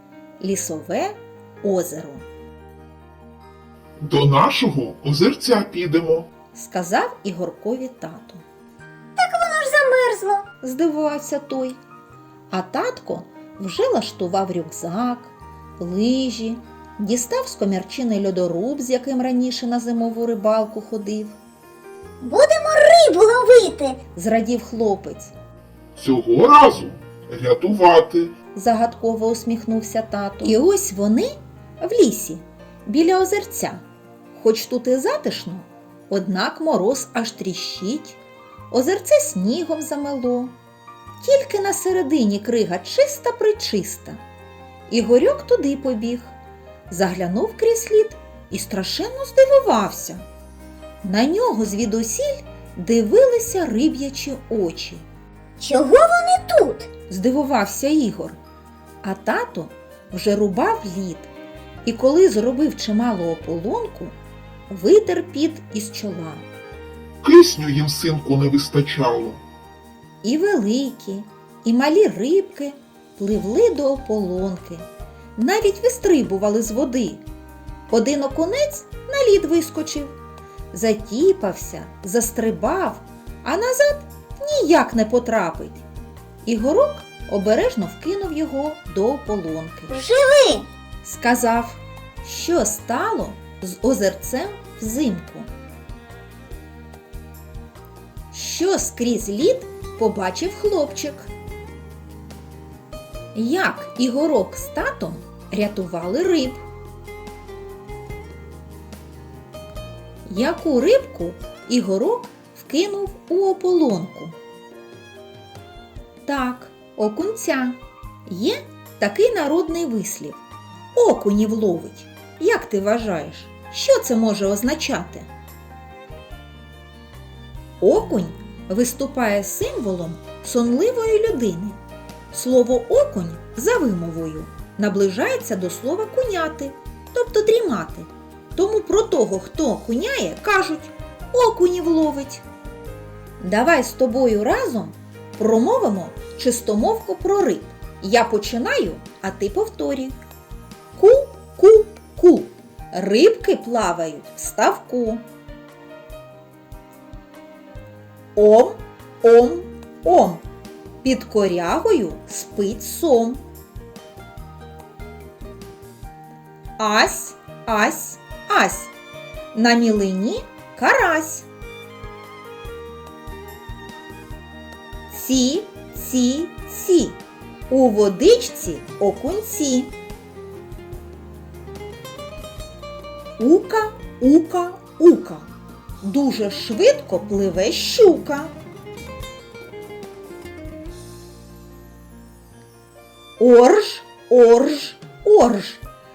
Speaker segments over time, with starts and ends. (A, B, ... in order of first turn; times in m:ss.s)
0:00.4-0:02.3 A
0:04.0-0:06.3 B
0:06.5-0:08.4 A
0:09.2-0:10.4 C
0:10.6-0:11.8 A
0:12.5-0:21.4 A
0:22.2-0:24.0 C
0:24.2-0:25.3 A
0:26.0-0:28.3 B
0:28.6-0:33.8 A
0:34.3-0:38.2 A
0:38.7-0:40.6 A
0:41.2-0:44.2 A
0:44.9-0:46.3 A
0:46.9-0:50.2 A
0:51.0-0:55.0 A
0:55.6-0:56.9 C
0:57.1-0:58.4 A
0:59.0-1:01.3 A
1:01.8-1:04.2 A
1:04.7-1:06.4 A
1:07.2-1:09.4 B
1:10.2-1:17.2 A
1:17.9-1:20.1 A
1:20.7-1:25.8 A
1:26.4-1:30.0 A
1:29.9-1:30.7 C
1:31.0-1:35.5 A
1:38.3-1:41.3 A
1:43.3-1:46.6 A
1:50.2-1:54.3 A
1:56.2-2:00.4 A
2:00.9-2:05.3 A
2:07.8-2:11.8 A
2:12.3-2:22.4 A
2:23.4-2:30.2 A
2:31.0-2:35.2 A
2:38.4-2:40.4 A
2:41.0-2:43.4 A
2:46.8-2:48.9 A
2:49.5-2:51.5 A
2:55.1-2:57.2 A
2:57.7-2:59.9 A
3:03.4-3:05.5 A
3:06.0-3:08.5 A
3:13.4-3:15.8 A